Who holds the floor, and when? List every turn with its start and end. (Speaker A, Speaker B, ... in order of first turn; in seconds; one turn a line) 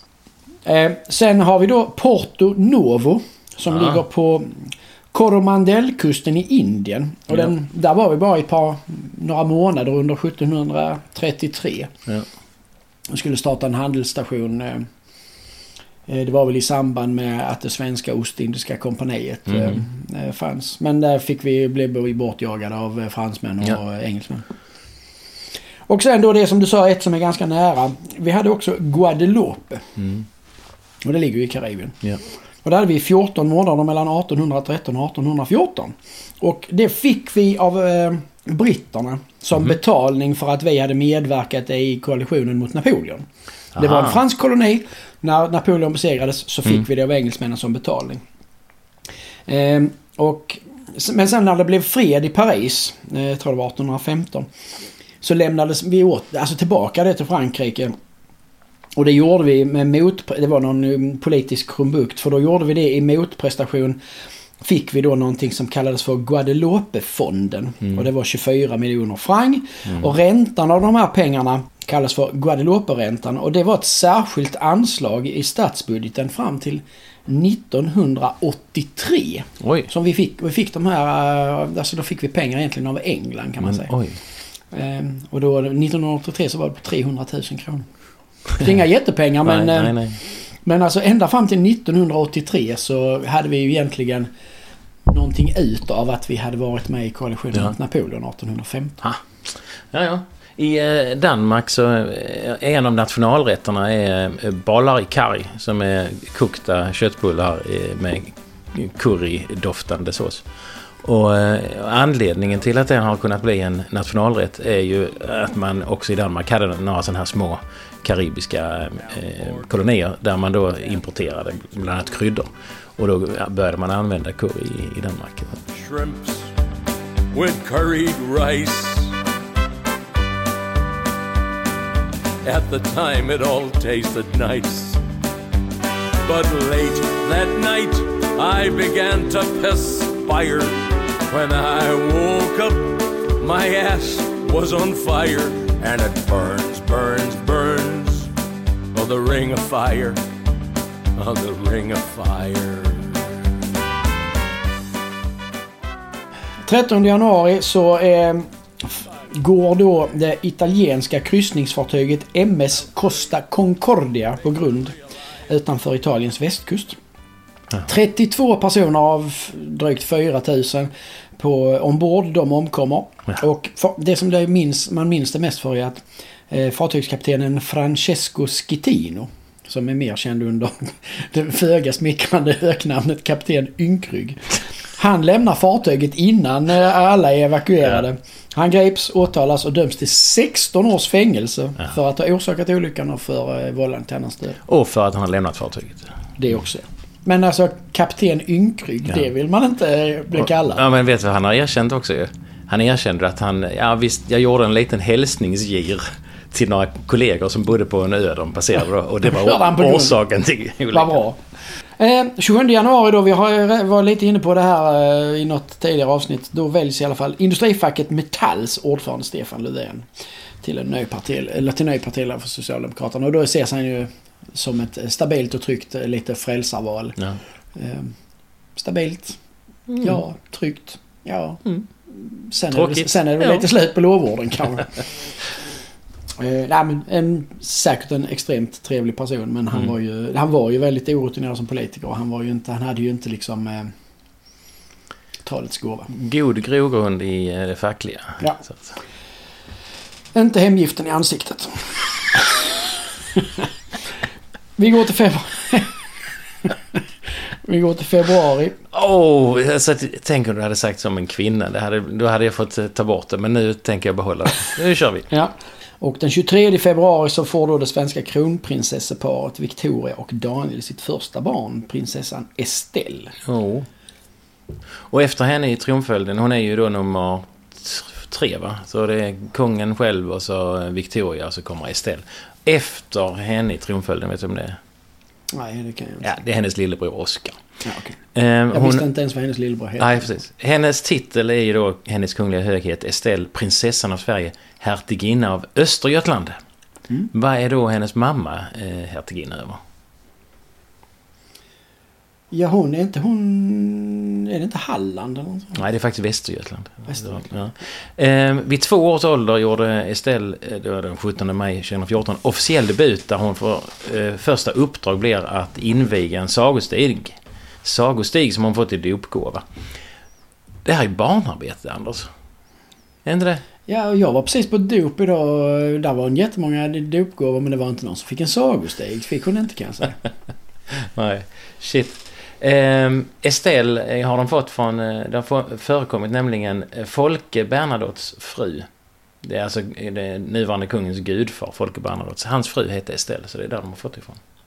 Speaker A: 0.7-11.9
Speaker B: 3.7-4.0
Speaker A: 13.1-14.9
Speaker A: 16.1-24.4
Speaker B: 19.5-19.8
Speaker A: 25.9-29.9
Speaker B: 30.0-30.3
Speaker A: 31.0-32.0
Speaker A: 32.6-48.2
Speaker B: 43.8-44.2
Speaker A: 49.5-54.5
Speaker A: 55.2-58.0
Speaker A: 59.0-64.0
Speaker A: 64.6-83.9
Speaker B: 69.9-70.1
Speaker B: 79.6-79.9
Speaker B: 83.6-84.2
Speaker A: 84.7-87.9
Speaker A: 88.5-94.3
Speaker B: 89.5-90.2
Speaker A: 95.1-99.0
Speaker B: 99.0-110.5
Speaker B: 111.0-125.6
Speaker C: 119.2-119.7
Speaker C: 125.7-126.5
Speaker C: 127.3-129.2
Speaker C: 132.4-135.0
Speaker C: 136.2-148.3
Speaker C: 148.9-150.2
Speaker C: 151.2-153.3
Speaker A: 156.7-167.0
Speaker A: 167.8-194.6
Speaker B: 194.7-196.1
Speaker A: 196.4-200.8
Speaker B: 200.3-211.2
Speaker A: 209.2-210.2
Speaker A: 210.9-211.4
Speaker A: 212.0-220.1
Speaker A: 220.6-227.2
Speaker A: 227.8-228.1
Speaker A: 228.8-229.4
Speaker B: 229.9-230.2
Speaker A: 230.0-235.0
Speaker B: 232.7-233.7
Speaker A: 236.4-243.9
Speaker A: 245.4-246.1
Speaker B: 246.1-248.9
Speaker A: 250.3-252.7
Speaker A: 253.4-253.7
Speaker A: 254.8-256.0
Speaker A: 257.6-258.8
Speaker B: 258.9-265.3
Speaker A: 265.3-273.4
Speaker B: 273.4-273.9
Speaker B: 275.1-284.8
Speaker A: 285.5-286.3
Speaker B: 286.2-287.6
Speaker A: 287.9-288.2
Speaker B: 288.4-289.1
Speaker A: 288.7-290.4
Speaker B: 290.0-296.6
Speaker B: 297.3-299.8
Speaker A: 302.5-305.8
Speaker B: 305.8-319.6
Speaker A: 307.1-307.5
Speaker B: 320.9-322.3
Speaker B: 323.2-323.6
Speaker A: 323.9-330.2
Speaker B: 330.9-338.9
Speaker B: 339.4-344.4